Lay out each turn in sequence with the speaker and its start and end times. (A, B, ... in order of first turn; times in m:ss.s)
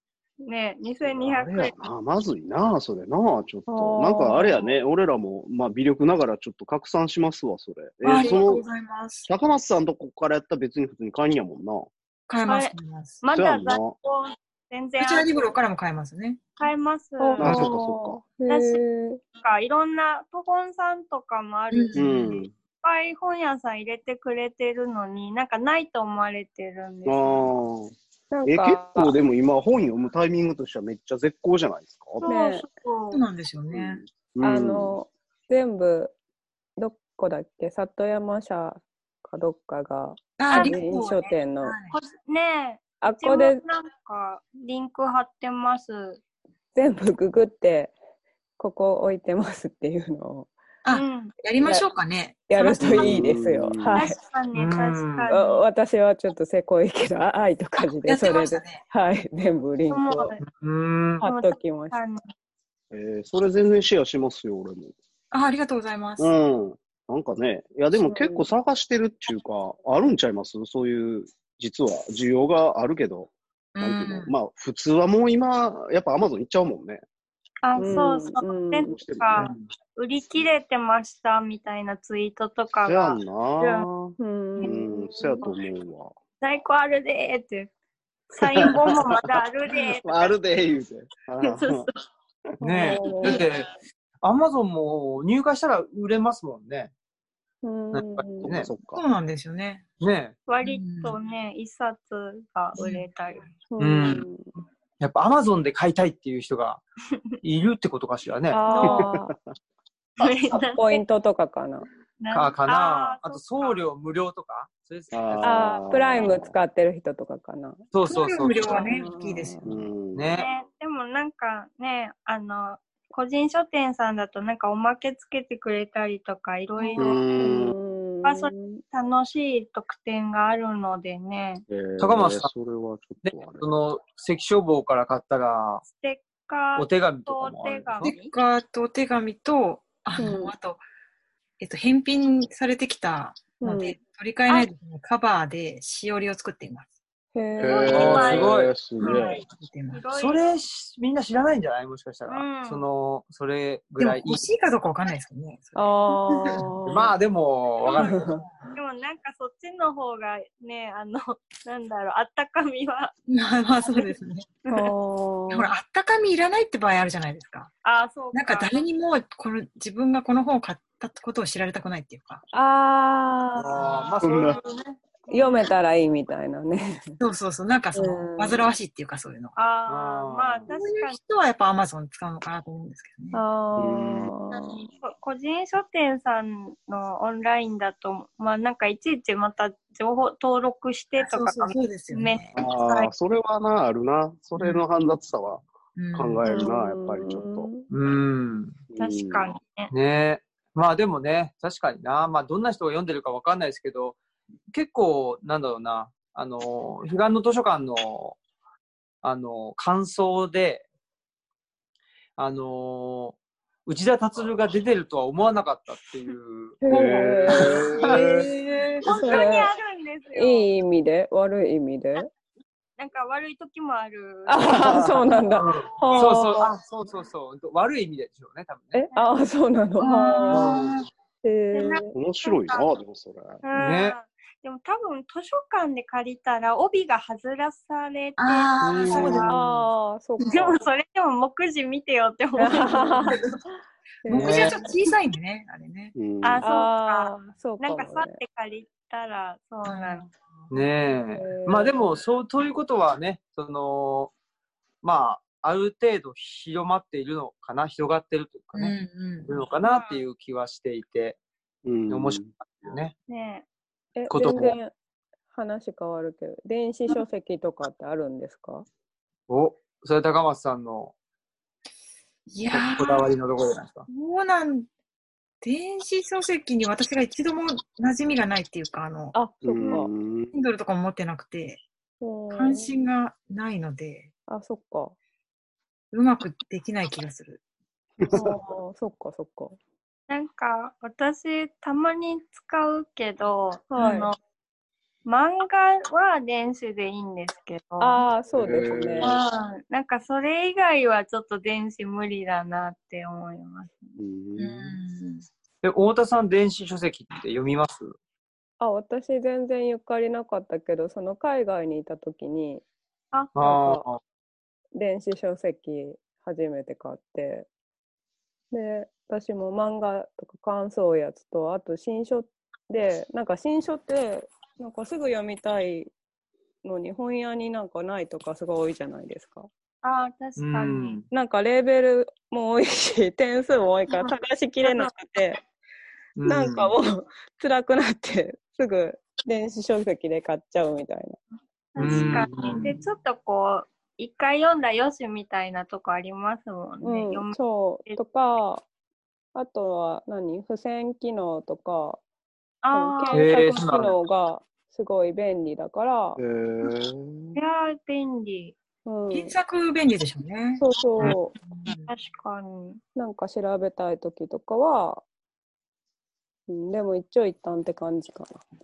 0:00.4-0:01.7 A
0:01.0-0:08.6 B
0:03.7-0:04.8 C
0:08.0-0:09.3 D
0:08.2-0:08.4 A
0:09.2-0:11.9 B
0:12.3-0:13.2 D
0:12.5-0:15.5 A
0:13.3-0:14.0 B
0:15.0-0:16.4 D
0:16.6-0:17.7 A
0:17.2-0:19.2 C
0:17.4-0:18.2 B
0:18.5-0:18.8 A
0:19.4-0:22.2 A
0:21.7-0:22.4 D
0:22.0-0:22.5 B
0:22.8-0:27.5 A
0:27.0-0:27.9 B
0:28.3-0:29.1 C
0:28.4-0:32.2 B
0:32.2-0:33.2 A
0:32.2-0:32.6 C
0:33.1-0:34.0 D
0:33.7-0:35.0 B
0:34.4-0:36.1 C
0:36.8-0:41.8 C
0:40.4-0:41.9 D
0:40.5-0:40.8 A
0:41.9-0:46.2 A
0:43.0-0:43.6 C
0:46.7-0:47.9 C
0:48.6-0:50.5 C
0:50.8-0:53.1 D
0:50.9-0:51.3 A
0:52.5-0:54.2 C
0:52.8-0:54.0 B
0:53.9-0:55.6 A
0:54.5-0:55.3 E
0:55.3-1:00.3 C
0:58.0-0:58.8 D
0:59.9-1:00.4 A
1:00.4-1:01.2 E
1:01.2-1:02.0 C
1:01.2-1:02.2 A
1:02.9-1:04.9 B
1:05.3-1:06.3 D
1:06.2-1:17.0 B
1:08.0-1:08.5 C
1:13.7-1:14.3 D
1:17.6-1:23.9 A
1:17.8-1:19.0 C
1:18.9-1:19.4 B
1:19.4-1:19.6 E
1:22.8-1:26.1 B
1:24.2-1:25.5 C
1:26.4-1:27.7 A
1:28.3-1:30.4 A
1:28.5-1:29.2 B
1:29.9-1:31.9 B
1:31.4-1:31.9 A
1:32.6-1:33.4 C
1:32.6-1:33.7 E
1:34.2-1:36.9 E
1:37.6-1:38.5 C
1:37.9-1:38.7 E
1:38.4-1:39.0 B
1:38.9-1:39.8 D
1:40.0-1:40.4 E
1:40.5-1:43.5 A
1:40.6-1:41.2 D
1:42.8-1:43.0 D
1:43.7-1:44.5 C
1:43.8-1:44.2 E
1:45.0-1:46.8 E
1:47.4-1:48.6 E
1:48.5-1:49.3 C
1:48.7-1:49.0 A
1:48.8-1:49.3 B
1:50.2-1:51.0 A
1:50.5-1:51.8 C
1:52.2-1:53.9 A
1:52.3-1:55.8 E
1:55.1-1:56.5 B
1:55.4-1:57.8 C
1:57.9-1:58.8 E
1:58.1-1:59.7 D
1:58.6-1:59.9 C
1:59.6-2:00.4 B
2:00.1-2:00.5 E
2:00.3-2:07.5 A
2:06.8-2:08.8 C
2:07.0-2:07.7 B
2:08.2-2:11.6 A
2:11.7-2:13.7 B
2:12.0-2:12.5 E
2:13.2-2:15.8 E
2:15.8-2:18.3 A
2:16.8-2:18.1 E
2:18.0-2:20.8 D
2:20.2-2:20.5 C
2:21.6-2:26.9 D
2:23.6-2:24.0 C
2:27.3-2:28.2 C
2:27.6-2:29.4 B
2:27.6-2:30.5 A
2:27.9-2:28.8 E
2:29.0-2:30.0 D
2:30.1-2:34.4 E
2:32.3-2:32.8 A
2:34.0-2:36.6 D
2:35.8-2:37.1 C
2:36.9-2:38.1 E
2:37.8-2:43.1 A
2:38.0-2:38.4 C
2:43.3-2:44.5 D
2:43.8-2:44.1 A
2:44.6-2:44.9 A
2:44.7-2:45.7 C
2:45.5-2:47.7 D
2:47.8-2:48.8 A
2:48.3-2:52.4 D
2:52.5-2:54.1 C
2:53.6-2:55.0 E
2:54.2-2:54.6 B
2:55.3-2:55.6 A
2:55.3-2:57.2 C
2:57.2-2:59.6 D
2:57.9-2:58.7 C
2:59.6-3:01.2 A
2:59.9-3:00.7 E
3:00.7-3:03.4 D
3:03.3-3:04.9 C
3:03.8-3:04.3 B
3:04.7-3:13.1 A
3:11.2-3:12.5 D
3:12.5-3:17.7 B
3:14.6-3:14.8 D
3:16.0-3:16.4 D
3:16.4-3:17.9 C
3:17.9-3:18.8 E
3:18.9-3:19.4 B
3:19.0-3:19.9 A
3:19.9-3:24.2 E
3:24.7-3:28.4 E
3:29.2-3:30.8 E
3:32.4-3:36.8 E
3:36.8-3:38.2 C
3:36.9-3:38.5 B
3:37.0-3:37.3 D
3:37.5-3:38.3 E
3:38.0-3:39.3 D
3:39.0-3:40.7 A
3:39.0-3:39.7 C
3:40.3-3:42.3 C
3:43.0-3:45.5 A
3:44.5-3:46.7 C
3:44.7-3:45.3 B
3:45.5-3:49.0 E
3:48.9-3:50.8 C
3:49.1-3:49.4 A
3:50.0-3:51.1 D
3:50.2-3:50.7 A
3:50.5-3:50.9 E
3:51.4-3:52.1 C
3:51.7-3:52.9 A
3:52.1-3:53.6 B
3:53.6-3:59.5 A
3:53.7-3:54.2 E
3:58.4-3:59.6 D
3:58.8-3:59.5 B
3:59.5-4:00.8 C
4:00.4-4:03.4 A
4:02.6-4:03.4 C
4:04.2-4:04.8 C
4:04.2-4:06.1 D
4:04.3-4:04.8 E
4:06.2-4:06.6 B
4:06.4-4:10.3 A
4:06.6-4:08.4 C
4:09.8-4:10.3 D
4:10.7-4:14.3 E
4:11.3-4:12.0 C
4:15.0-4:21.4 E
4:18.7-4:19.5 D
4:19.8-4:20.2 A
4:21.8-4:22.5 B
4:22.1-4:23.1 E
4:23.3-4:23.6 A
4:24.2-4:24.9 C
4:24.3-4:24.8 E
4:24.4-4:24.8 B
4:25.5-4:28.8 C
4:29.5-4:31.1 E
4:32.5-4:33.3 D
4:32.7-4:34.0 E
4:34.1-4:34.9 D
4:35.6-4:39.3 D
4:39.3-4:40.1 C
4:39.6-4:40.5 B
4:40.5-4:41.8 D
4:42.2-4:42.9 C
4:42.5-4:44.3 D
4:44.5-4:45.1 C
4:46.1-4:47.6 D
4:48.2-4:48.6 B
4:48.2-4:49.8 C
4:50.3-4:54.3 A
4:53.9-4:54.3 C
4:55.2-4:58.2 A
4:58.0-4:59.4 C
4:58.5-4:59.4 B
4:59.2-5:04.2 A
5:04.2-5:05.0 B
5:04.6-5:05.4 D
5:05.8-5:08.2 E
5:08.8-5:12.8 C
5:13.6-5:14.2 E
5:13.6-5:14.0 C
5:15.0-5:17.7 C
5:18.7-5:26.1 C
5:26.8-5:29.7 C
5:30.0-5:31.2 A
5:30.6-5:31.2 E
5:31.3-5:35.6 C
5:34.1-5:35.1 A
5:36.4-5:36.9 E
5:36.4-5:41.4 C
5:41.9-5:48.2 A
5:42.0-5:42.9 E
5:42.0-5:42.4 C
5:47.0-5:48.8 C
5:49.5-5:52.2 C
5:52.8-5:53.6 A
5:52.9-5:56.4 C
5:53.3-5:54.2 E
5:56.4-5:57.6 B
5:57.5-5:58.8 A
5:59.0-5:59.5 C
5:59.3-6:02.1 D
6:00.8-6:01.6 C
6:02.1-6:03.0 A
6:03.2-6:05.2 C
6:06.7-6:08.6 C